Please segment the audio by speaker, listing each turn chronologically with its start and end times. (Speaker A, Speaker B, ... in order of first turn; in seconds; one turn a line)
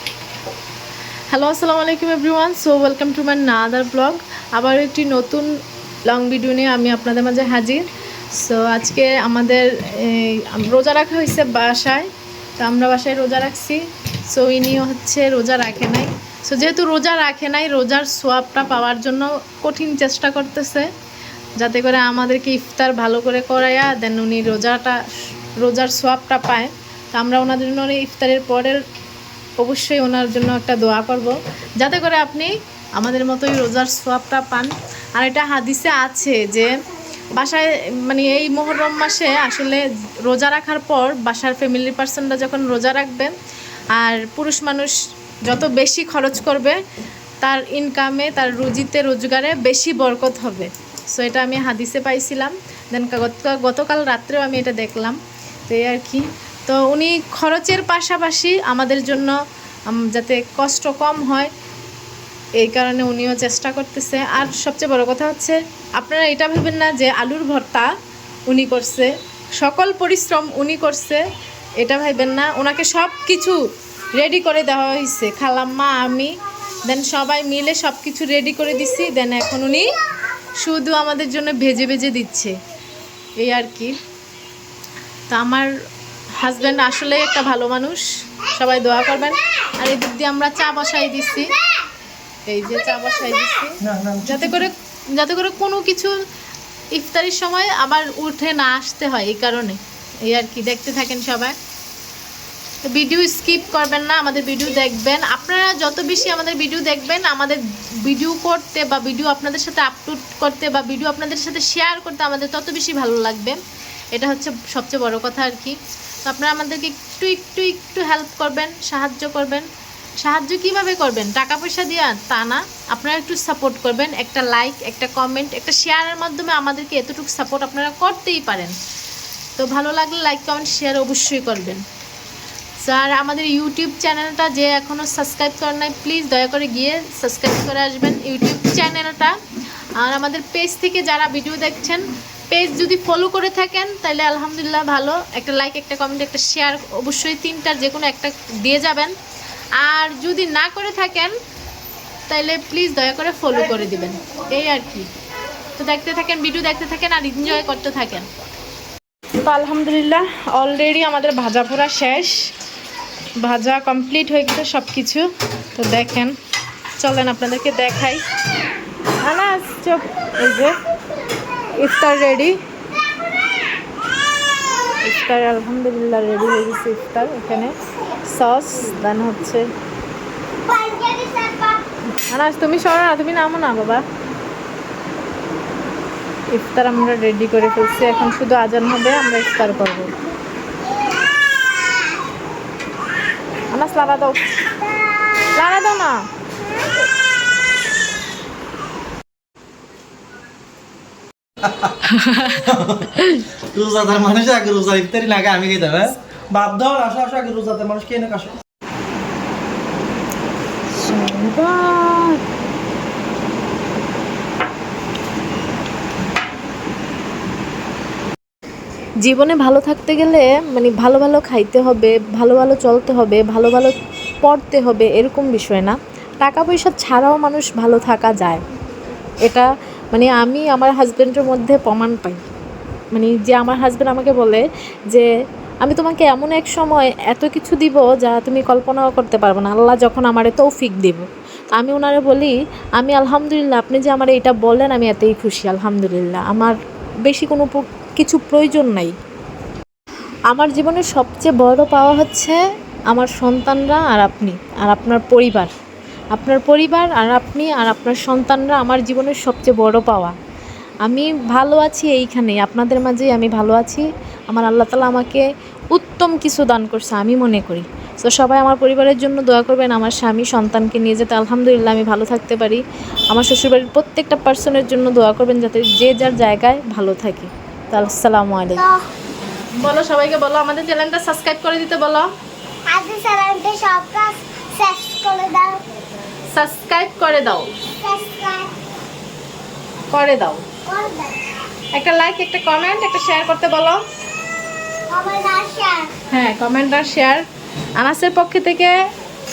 Speaker A: 1.3-5.5
Speaker A: 6.0-12.1
Speaker A: 12.6-20.9
Speaker A: 21.6-25.0
Speaker A: 25.6-28.8
Speaker A: 29.6-36.7
Speaker A: 37.3-43.3
Speaker A: 43.9-46.8
Speaker A: 47.4-59.4
Speaker A: 59.9-61.5
Speaker A: 62.6-67.9
Speaker A: 68.5-71.2
Speaker A: 71.8-73.6
Speaker A: 74.1-79.9
Speaker A: 80.5-82.5
Speaker A: 83.4-83.9
Speaker A: 85.3-85.7
Speaker A: 86.3-91.6
Speaker A: 92.5-96.2
Speaker B: 93.8-94.6
Speaker A: 96.9-101.5
Speaker A: 102.8-113.6
Speaker A: 114.1-119.7
Speaker A: 120.2-128.7
Speaker A: 129.6-131.8
Speaker A: 132.8-139.4
Speaker A: 140.0-149.1
Speaker A: 149.8-151.3
Speaker A: 152.3-155.1
Speaker A: 155.7-158.3
Speaker A: 159.4-162.5
Speaker A: 163.4-166.4
Speaker A: 167.0-168.2
Speaker A: 169.2-170.8
Speaker A: 171.7-172.6
Speaker A: 175.0-179.7
Speaker C: 180.6-181.8
Speaker A: 182.3-184.0
Speaker A: 186.5-190.1
Speaker A: 193.7-194.8
Speaker A: 195.4-196.3
Speaker B: 201.6-203.2
Speaker A: 202.0-203.5
Speaker B: 203.7-208.6
Speaker A: 210.9-212.4
Speaker A: 219.2-228.6
Speaker A: 229.4-232.4
Speaker A: 233.1-235.3
Speaker A: 235.8-249.1
Speaker A: 250.5-255.7
Speaker A: 256.3-260.3
Speaker A: 261.0-278.9
Speaker A: 279.8-282.3
Speaker C: 282.9-285.8
Speaker A: 286.5-287.7
Speaker C: 288.0-288.7
Speaker A: 290.1-290.6
Speaker C: 290.9-291.5
Speaker A: 291.9-294.0
Speaker C: 295.1-296.1
Speaker A: 296.3-298.9